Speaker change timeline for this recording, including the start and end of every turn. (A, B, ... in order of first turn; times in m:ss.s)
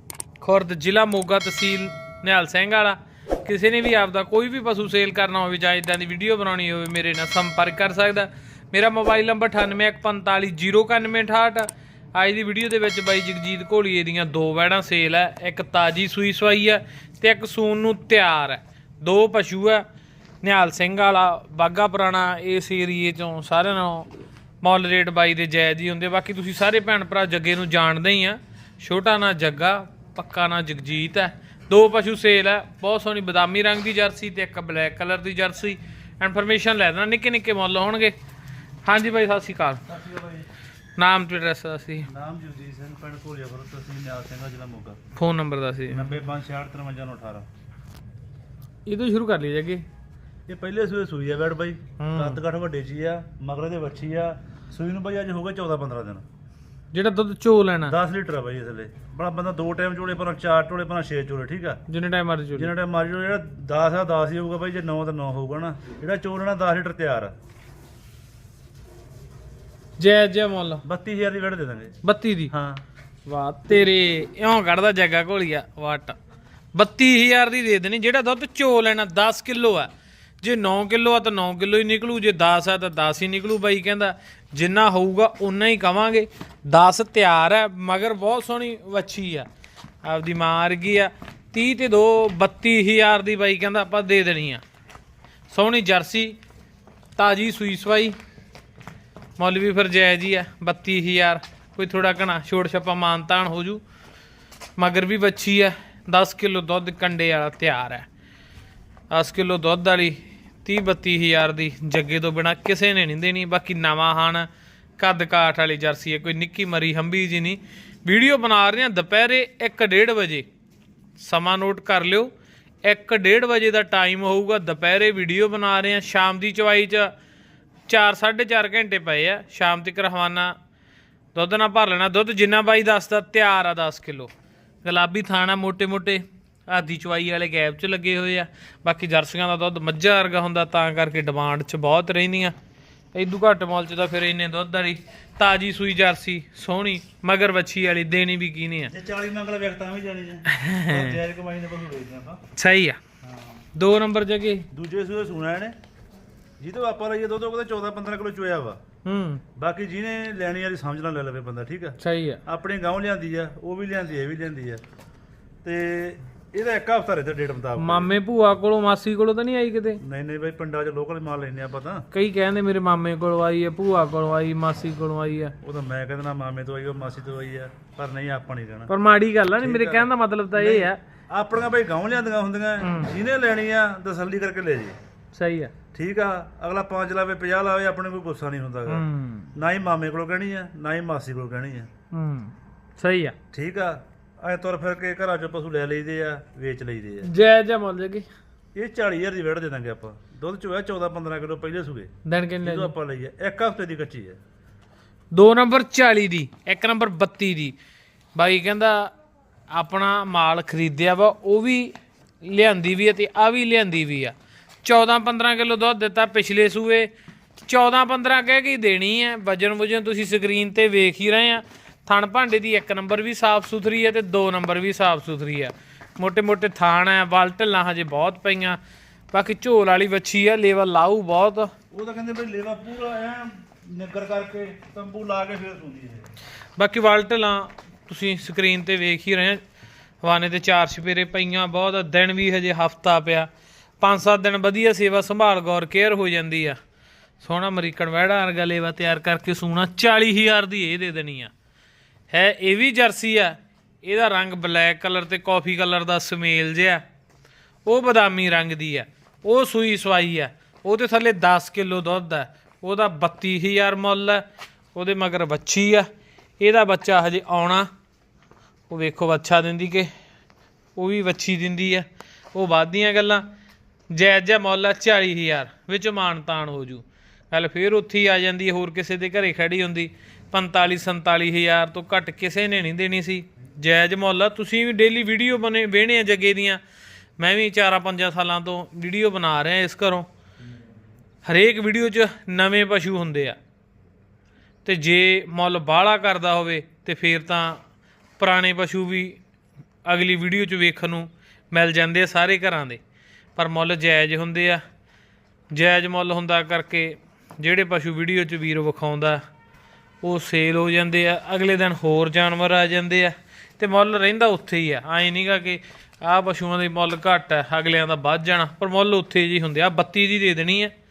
0:00.4-0:19.8 A
0:20.4-0:24.1 A
0:24.6-0:38.1 A
0:38.8-0:39.8 A
0:39.9-0:40.5 B
0:41.0-0:42.1 A
0:42.1-0:45.0 B
0:45.1-0:46.1 A
0:45.9-0:47.5 B
0:48.9-0:49.8 A
0:50.5-0:56.2 B
0:52.0-0:52.4 A
0:56.9-0:58.0 A
0:57.9-1:01.8 B
1:01.9-1:02.7 A
1:02.5-1:07.3 B
1:10.0-1:10.8 A
1:10.8-1:12.0 B
1:12.0-1:12.5 A
1:12.5-1:12.8 B
1:13.2-1:16.2 A
1:16.7-1:19.9 A
1:20.4-1:29.5 A
1:30.0-1:34.6 A
1:35.5-1:36.4 A
1:37.2-1:38.2 A
1:39.4-1:43.8 A
1:44.8-1:48.1 A
1:49.1-1:54.5 A
1:55.0-2:00.5 A
2:01.2-2:02.3 A
2:02.8-2:07.1 A
2:07.9-2:10.5 A
2:11.3-2:14.3 A
2:14.8-2:22.5 A
2:23.1-2:28.9 A
2:28.9-2:32.4 B
2:30.5-2:31.2 A
2:32.6-2:33.0 A
2:33.2-2:33.6 B
2:33.7-2:34.7 A
2:34.7-2:35.8 B
2:36.6-2:38.8 B
2:39.0-2:39.4 A
2:39.6-2:44.8 B
2:42.0-2:42.4 A
2:45.6-2:48.1 B
2:47.8-2:50.0 A
2:50.0-2:52.0 B
2:52.1-2:55.5 A
2:55.6-2:58.9 B
2:58.9-3:01.0 A
2:59.6-3:05.0 B
3:02.8-3:03.1 A
3:05.3-3:05.7 A
3:05.9-3:11.9 B
3:08.9-3:09.5 A
3:12.1-3:13.3 A
3:13.5-3:17.3 B
3:17.2-3:18.2 A
3:18.7-3:22.1 B
3:22.2-3:22.9 A
3:22.6-3:24.4 B
3:25.3-3:27.8 A
3:28.3-3:29.1 A
3:29.7-3:48.8 A
3:49.3-3:51.7 A
3:51.9-3:56.3 B
3:56.8-3:59.6 A
4:00.2-4:03.5 A
4:04.0-4:06.8 A
4:07.4-4:11.5 A
4:12.3-4:17.0 A
4:17.8-4:26.1 A
4:26.6-4:27.9 A
4:28.9-4:30.1 A
4:30.9-4:33.4 A
4:34.1-4:46.8 A
4:47.4-4:50.3 A
4:51.4-4:53.6 A
4:54.8-4:57.8 A
4:58.4-4:59.4 A
5:00.0-5:03.0 A
5:03.6-5:04.8 A
5:05.7-5:09.4 A
5:10.2-5:20.9 A